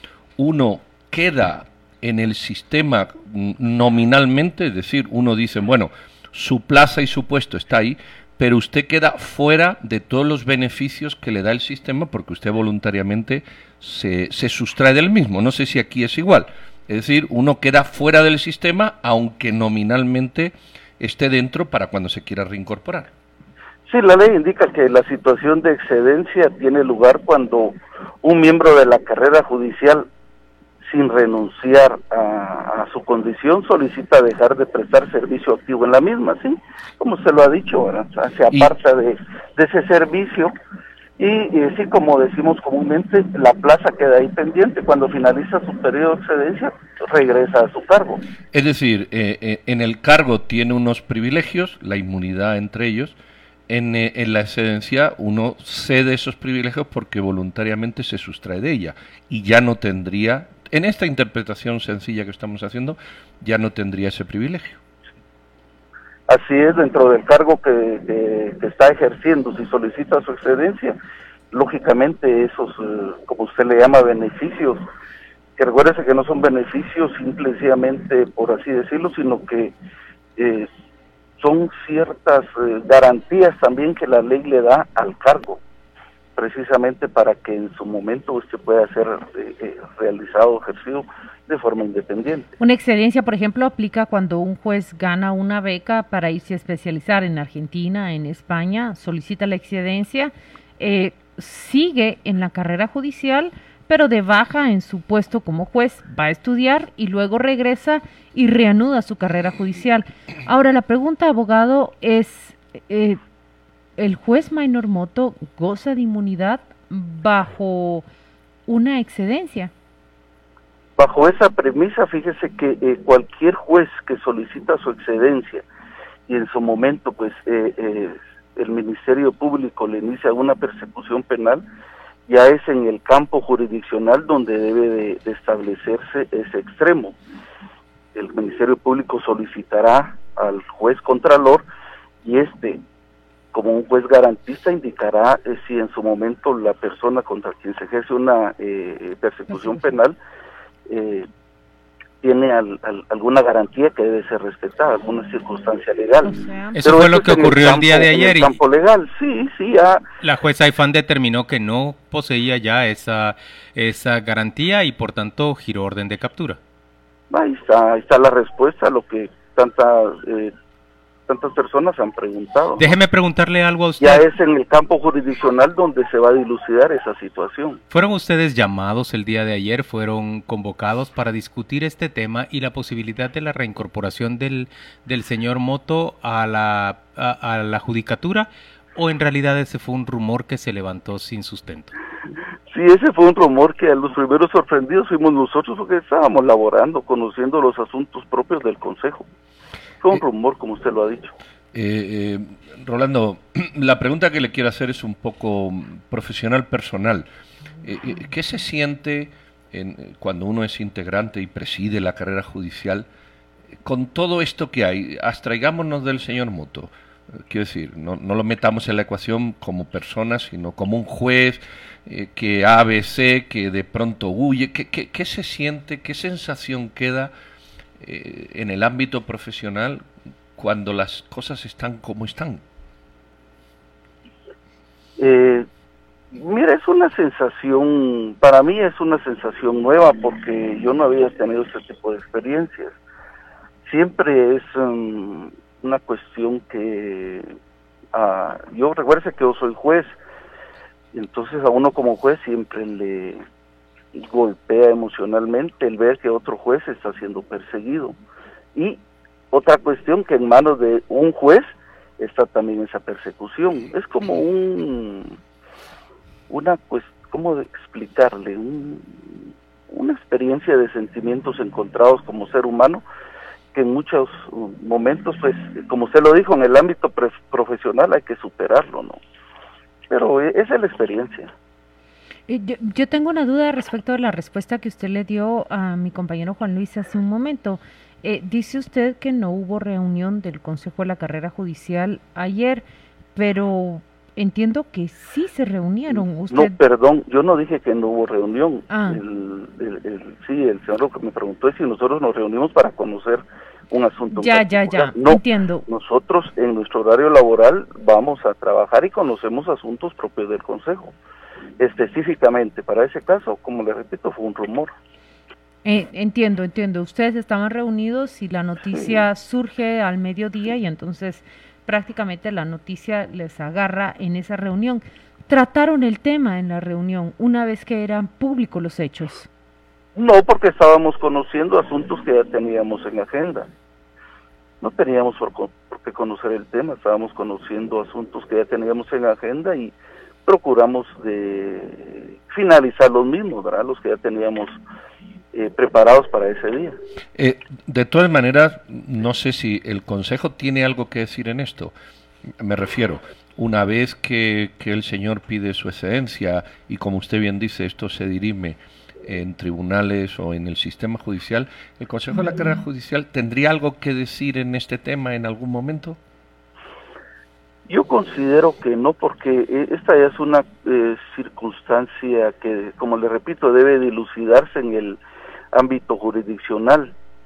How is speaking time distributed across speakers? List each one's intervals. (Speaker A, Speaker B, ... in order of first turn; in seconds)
Speaker A: 0.4-23.1, 48.5-53.2, 53.7-64.8, 201.7-207.3, 207.8-213.1, 213.8-216.9, 217.4-227.3, 228.0-230.1, 230.6-232.6, 347.4-351.9, 352.6-366.2
Speaker B: 23.9-30.1, 30.9-40.5, 41.2-48.2, 66.3-71.0, 71.5-74.8, 75.6-79.7, 80.4-80.7, 81.4-85.6, 86.3-92.5, 121.0-125.7, 126.3-131.6, 132.3-137.2, 138.1-141.6, 142.2-142.8, 143.5-150.2, 150.9-151.3, 152.2-160.0, 167.3-170.5, 171.3-172.9, 174.0-177.8, 192.7-199.3, 200.0-201.3, 235.2-235.7, 236.3-242.9, 243.8-247.5, 248.1-250.2, 251.1-253.4, 254.1-258.2, 258.8-259.0, 259.5-265.4, 266.5-269.2, 269.9-273.0, 273.7-279.2, 280.1-281.5, 296.5-311.1, 311.8-314.9, 330.2-333.7, 334.8-339.9, 340.4-344.8, 345.5-347.0, 367.9-375.2, 375.7-377.1
Speaker C: 92.6-113.2, 114.0-118.0, 118.7-119.7, 156.4-156.8, 282.5-292.8, 293.4-296.8, 298.9-299.2, 304.3-305.9, 315.9-329.5
Speaker D: 156.8-158.6, 160.2-166.6, 172.8-174.2, 177.9-191.9